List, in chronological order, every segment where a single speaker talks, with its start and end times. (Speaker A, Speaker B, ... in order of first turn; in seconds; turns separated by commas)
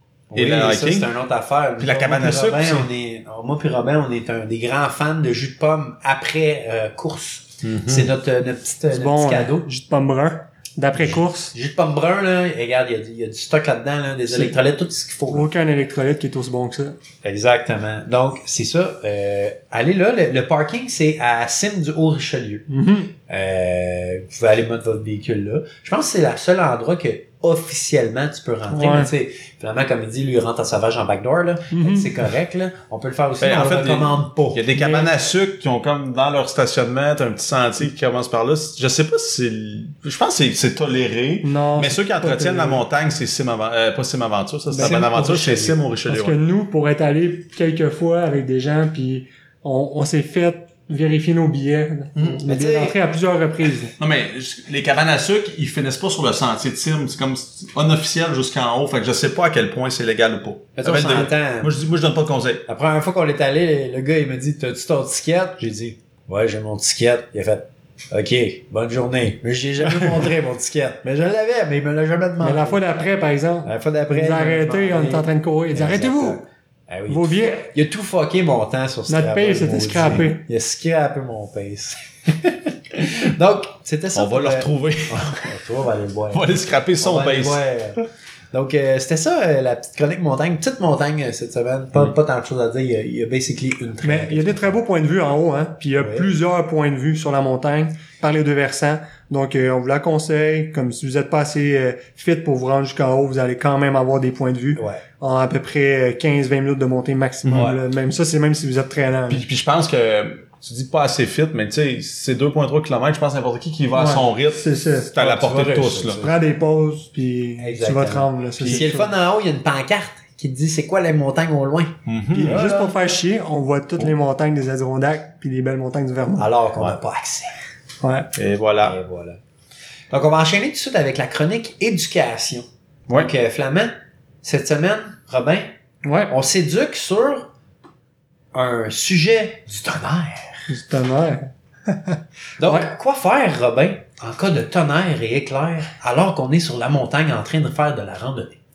Speaker A: 0.3-9.7, Speaker B: 0.3-1.1, Speaker B: 1.8-2.9, Speaker B: 7.6-8.1, Speaker C: 8.9-11.5, Speaker A: 10.9-15.5, Speaker C: 15.3-17.0, Speaker A: 17.2-22.7, Speaker C: 22.7-23.1, Speaker A: 23.3-34.6, Speaker C: 28.7-29.1, Speaker C: 31.7-32.2, Speaker B: 33.4-46.4, Speaker C: 34.8-35.1, Speaker C: 41.4-42.8, Speaker C: 44.7-53.9, Speaker A: 44.8-45.6, Speaker B: 52.2-52.4, Speaker A: 52.5-53.0, Speaker B: 54.0-62.6, Speaker A: 60.8-61.7, Speaker A: 62.7-72.8, Speaker C: 72.4-76.4, Speaker A: 73.7-94.8, Speaker C: 77.1-77.7, Speaker C: 79.1-80.4, Speaker B: 84.2-85.5, Speaker B: 86.3-87.6, Speaker C: 94.0-109.5, Speaker A: 96.0-96.3, Speaker A: 104.8-105.0, Speaker B: 107.5-107.7, Speaker A: 107.5-107.8, Speaker B: 109.3-116.2, Speaker C: 114.0-115.1, Speaker A: 115.2-116.3, Speaker C: 116.2-119.1, Speaker A: 117.6-123.0, Speaker B: 118.6-118.8, Speaker B: 122.1-122.6, Speaker C: 122.4-126.5, Speaker A: 126.4-127.5, Speaker C: 128.0-128.3, Speaker B: 128.3-129.0, Speaker A: 128.8-129.4, Speaker A: 130.1-135.7, Speaker C: 136.0-136.3, Speaker A: 136.3-137.5, Speaker A: 138.5-140.7, Speaker C: 140.7-142.9, Speaker A: 142.6-148.6